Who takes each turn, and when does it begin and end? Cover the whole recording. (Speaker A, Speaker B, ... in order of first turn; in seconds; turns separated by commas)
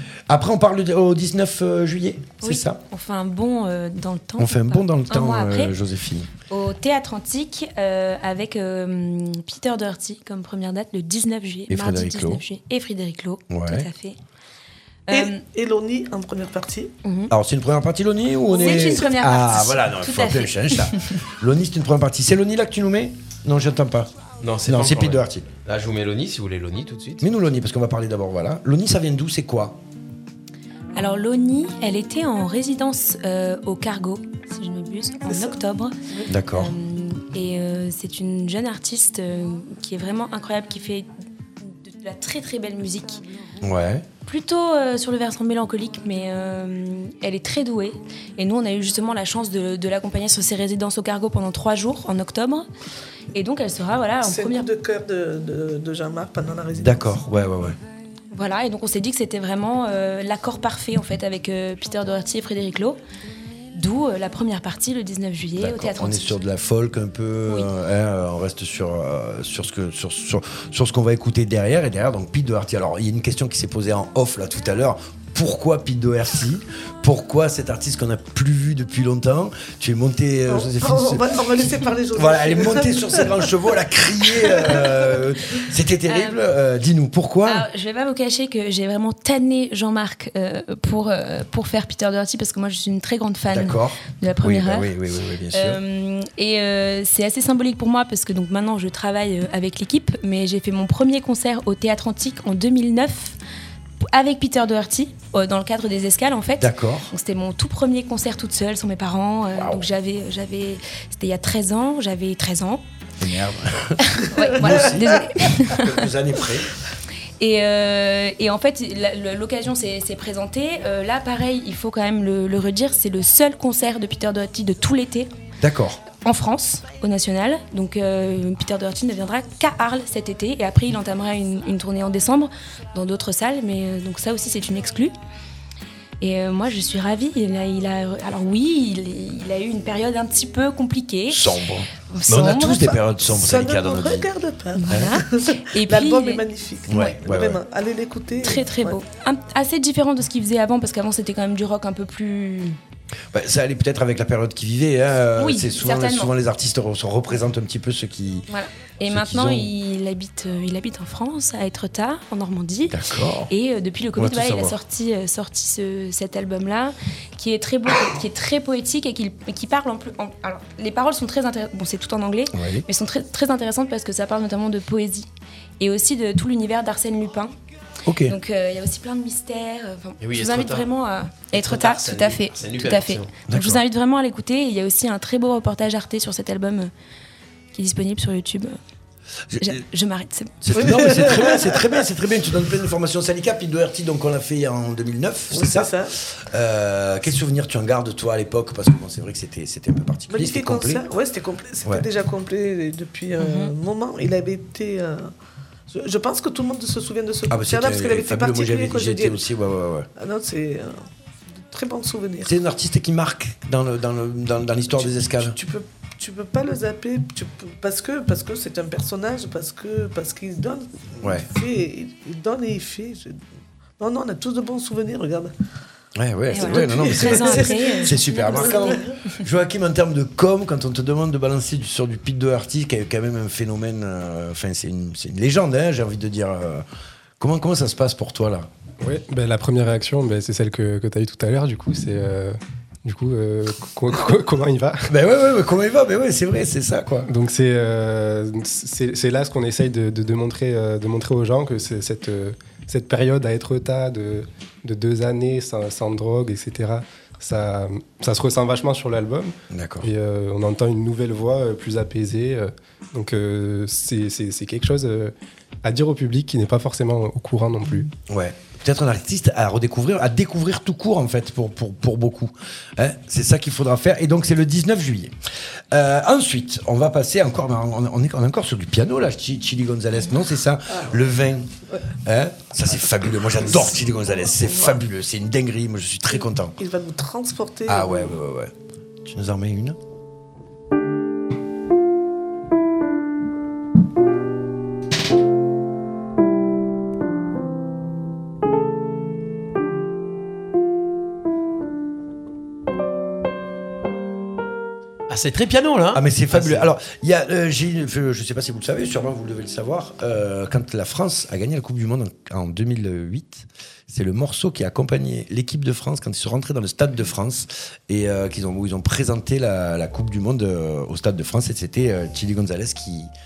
Speaker A: 0.3-2.8, Speaker B: 2.4-5.7, Speaker A: 4.4-6.3, Speaker B: 6.5-14.2, Speaker A: 11.7-12.4, Speaker A: 13.5-13.9, Speaker B: 15.1-15.4, Speaker C: 15.1-16.9, Speaker B: 17.0-17.3, Speaker A: 17.3-24.1, Speaker B: 18.5-20.9, Speaker D: 24.4-27.2, Speaker A: 24.6-25.5, Speaker A: 27.2-29.8, Speaker B: 30.9-35.9, Speaker C: 35.3-35.6, Speaker A: 36.3-36.7, Speaker B: 36.5-41.1, Speaker B: 41.6-43.2, Speaker A: 43.6-44.0, Speaker B: 44.2-52.7, Speaker B: 53.3-54.7, Speaker C: 54.2-57.0, Speaker A: 56.8-57.8, Speaker B: 58.3-63.0, Speaker B: 63.7-66.4, Speaker A: 65.6-81.5, Speaker C: 80.5-83.5, Speaker A: 82.1-87.7, Speaker C: 84.3-85.2, Speaker B: 86.1-86.4, Speaker B: 87.4-94.9, Speaker A: 93.5-95.8, Speaker B: 95.5-103.3, Speaker B: 104.0-112.8, Speaker A: 106.6-107.1, Speaker A: 109.5-109.8, Speaker A: 113.2-116.7, Speaker B: 114.0-116.1, Speaker B: 117.4-125.3, Speaker A: 125.6-126.0, Speaker B: 126.2-135.1, Speaker B: 136.2-141.4, Speaker A: 141.3-144.3, Speaker B: 142.1-143.0, Speaker C: 143.3-149.0, Speaker B: 144.7-147.1, Speaker A: 146.9-147.6, Speaker B: 148.4-152.8, Speaker A: 153.3-158.5, Speaker B: 155.3-156.3, Speaker B: 158.5-175.3, Speaker A: 159.1-159.7, Speaker A: 162.9-163.5, Speaker A: 164.2-164.8, Speaker A: 172.5-172.8, Speaker B: 175.8-177.5, Speaker A: 178.0-178.3, Speaker B: 178.2-186.9, Speaker D: 180.2-180.9, Speaker D: 181.5-183.3, Speaker A: 183.5-183.8, Speaker B: 187.7-188.8, Speaker A: 189.5-189.8, Speaker B: 189.6-191.2, Speaker A: 190.6-201.0, Speaker C: 190.7-191.9, Speaker C: 195.5-196.1, Speaker C: 200.3-205.3, Speaker B: 203.4-203.7, Speaker C: 205.9-209.4, Speaker A: 207.5-210.1, Speaker C: 210.2-211.0, Speaker C: 211.5-212.5, Speaker A: 212.4-215.6, Speaker C: 214.9-223.4, Speaker A: 221.2-221.5, Speaker C: 224.0-225.5, Speaker A: 226.2-236.8, Speaker B: 226.5-229.0, Speaker C: 226.6-229.1, Speaker A: 237.4-238.7, Speaker E: 239.0-245.1, Speaker A: 245.1-247.3, Speaker E: 247.3-265.3, Speaker A: 259.7-260.1, Speaker E: 265.8-268.1, Speaker A: 268.3-275.3, Speaker A: 275.9-281.7, Speaker A: 282.2-286.8, Speaker C: 283.8-285.0, Speaker C: 286.3-288.3, Speaker A: 287.9-290.0, Speaker D: 305.3-306.9, Speaker A: 306.1-323.3